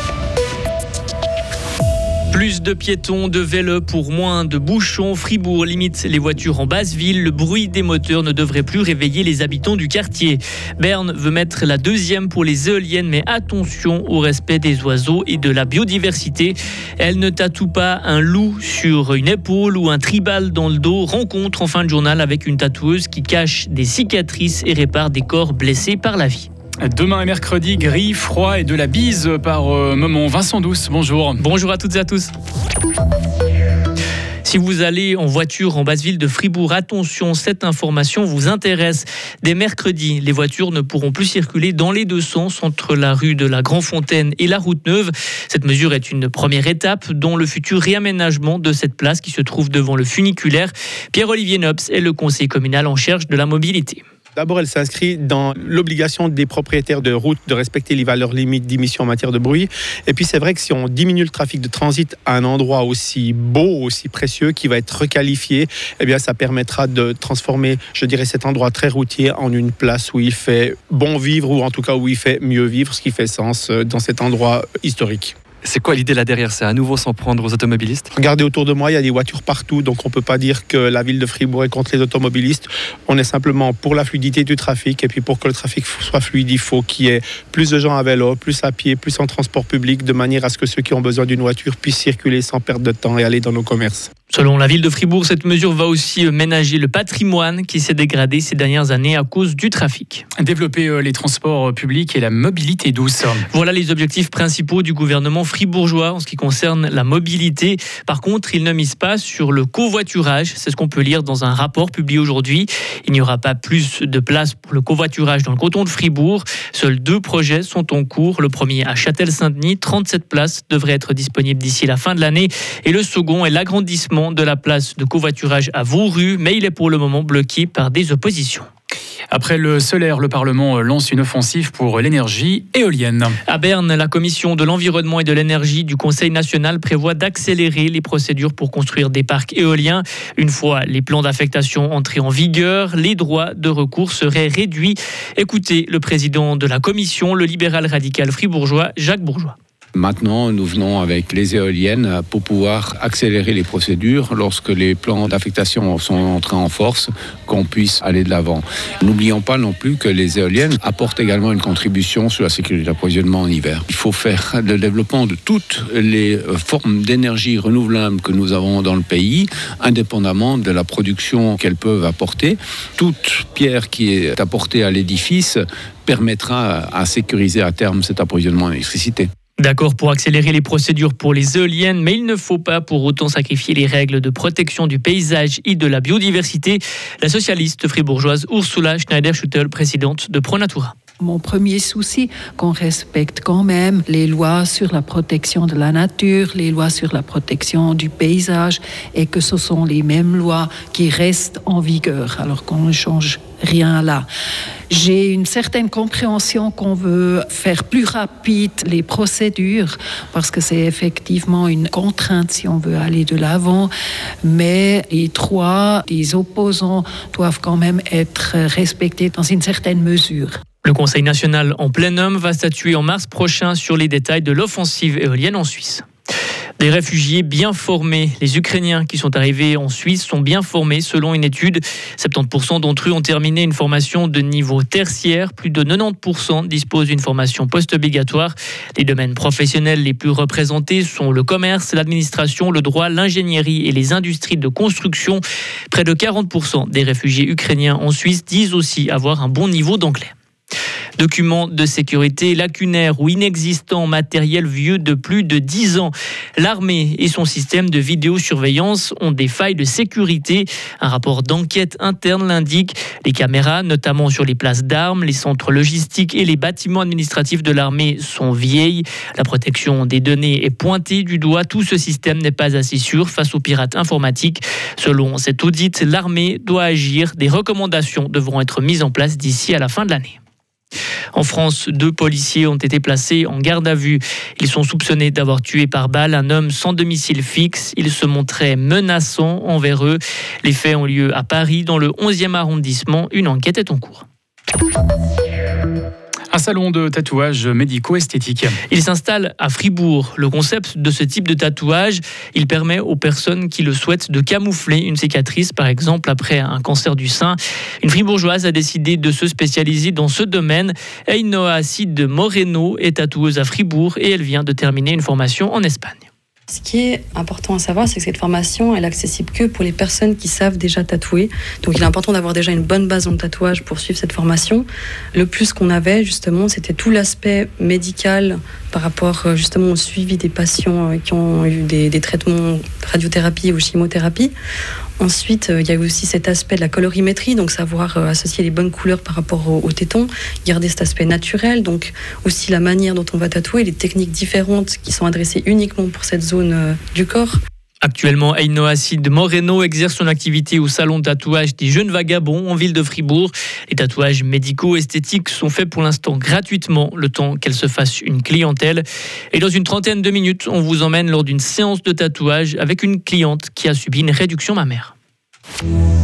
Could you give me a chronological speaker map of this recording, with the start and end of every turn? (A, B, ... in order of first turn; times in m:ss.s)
0:02.3-0:26.5 A
0:26.8-0:31.4 B
0:31.4-0:32.3 A
0:34.4-0:54.0 A
0:54.4-1:15.4 C
1:15.6-1:18.1 D
1:18.2-1:34.1 C
1:34.3-1:40.2 A
1:40.4-1:43.4 B
1:43.5-2:08.7 A
2:09.3-2:13.4 B
2:13.5-2:29.6 A
2:30.0-2:59.3 E
2:59.6-3:11.0 A
3:11.2-3:24.3 F
3:24.9-3:33.9 F
3:34.4-3:40.6 F
3:40.8-3:46.0 A
3:46.8-4:10.3 A
4:11.2-4:40.4 A
4:41.4-4:54.3 A
4:56.5-4:58.8 B
4:58.9-5:16.2 A
5:16.7-5:34.5 G
5:35.2-5:47.6 G
5:48.0-6:05.1 A